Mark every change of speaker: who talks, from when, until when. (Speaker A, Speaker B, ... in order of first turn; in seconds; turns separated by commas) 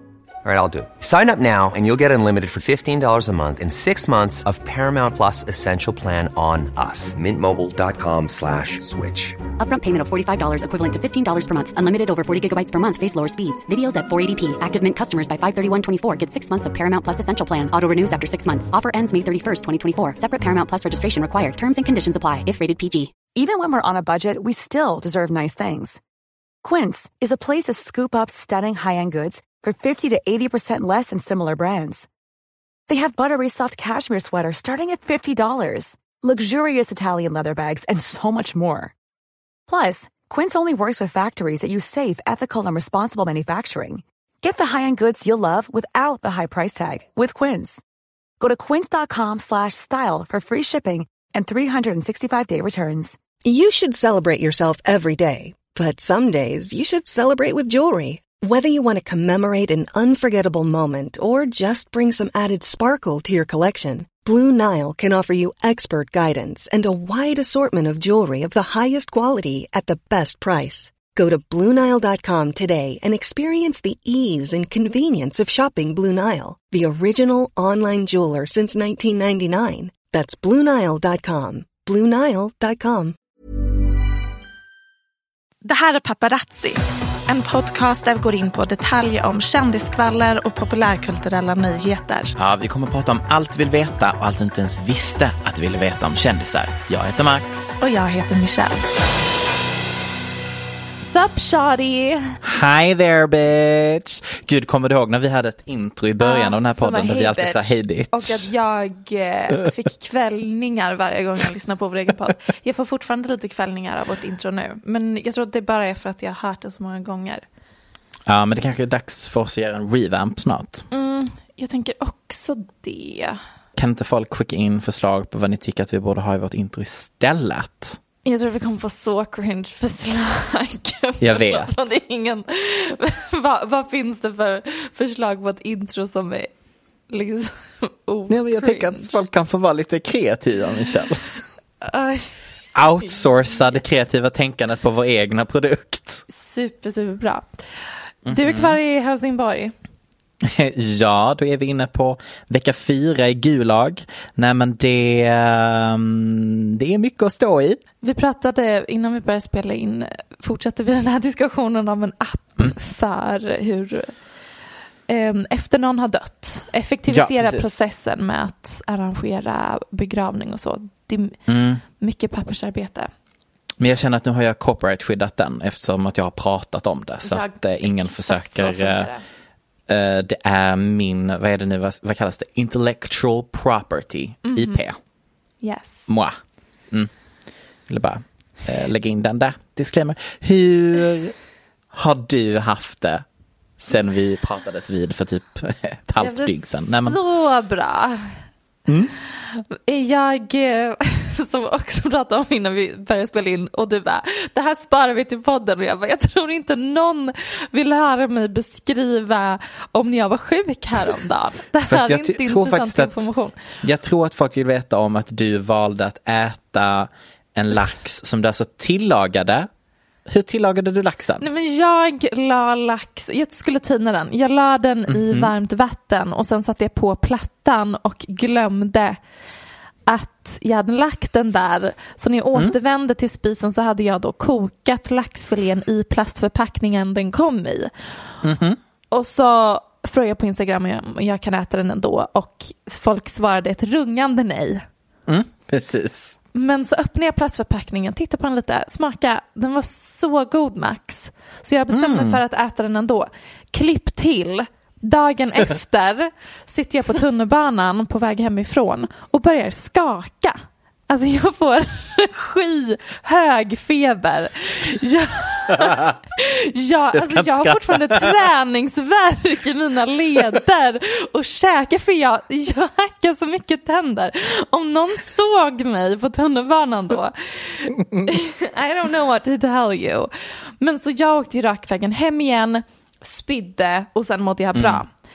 Speaker A: 0.4-9.4, Speaker B: 9.6-23.2, Speaker C: 23.4-26.0, Speaker C: 26.6-32.1, Speaker C: 32.9-38.9, Speaker C: 39.7-47.8, Speaker C: 48.4-53.2, Speaker D: 53.4-83.2, Speaker E: 85.6-92.3, Speaker F: 92.4-97.8, Speaker E: 97.8-98.9, Speaker E: 101.0-102.3, Speaker F: 102.4-108.5, Speaker E: 106.2-117.5, Speaker F: 118.3-120.9, Speaker E: 120.9-123.4, Speaker F: 123.8-128.0, Speaker E: 128.2-136.5, Speaker F: 131.2-131.8, Speaker E: 137.1-139.2, Speaker F: 138.3-141.2, Speaker E: 141.8-142.4, Speaker F: 142.8-146.2, Speaker E: 146.3-147.5, Speaker F: 148.3-148.8, Speaker E: 148.3-149.7, Speaker F: 150.4-157.8, Speaker E: 158.0-164.1, Speaker E: 165.1-171.4, Speaker F: 167.1-167.8, Speaker F: 171.5-171.8, Speaker E: 172.0-173.1, Speaker F: 173.8-179.1, Speaker E: 177.2-179.2, Speaker F: 179.9-185.0, Speaker E: 184.4-184.8, Speaker E: 185.6-186.1, Speaker F: 186.1-186.4, Speaker F: 187.9-191.3, Speaker F: 191.9-193.2, Speaker F: 193.8-197.2, Speaker E: 196.2-198.2, Speaker F: 198.9-199.1, Speaker E: 199.5-213.6, Speaker F: 211.9-213.3, Speaker F: 213.8-219.7, Speaker F: 220.3-221.4, Speaker E: 221.4-229.2, Speaker F: 225.1-225.5, Speaker E: 230.1-237.9, Speaker F: 238.4-238.8, Speaker E: 239.1-244.8, Speaker F: 245.3-246.4, Speaker E: 246.5-260.6, Speaker F: 251.9-252.4, Speaker E: 261.1-280.3, Speaker F: 265.8-266.2, Speaker F: 267.1-268.3, Speaker E: 280.8-285.1, Speaker F: 284.8-285.0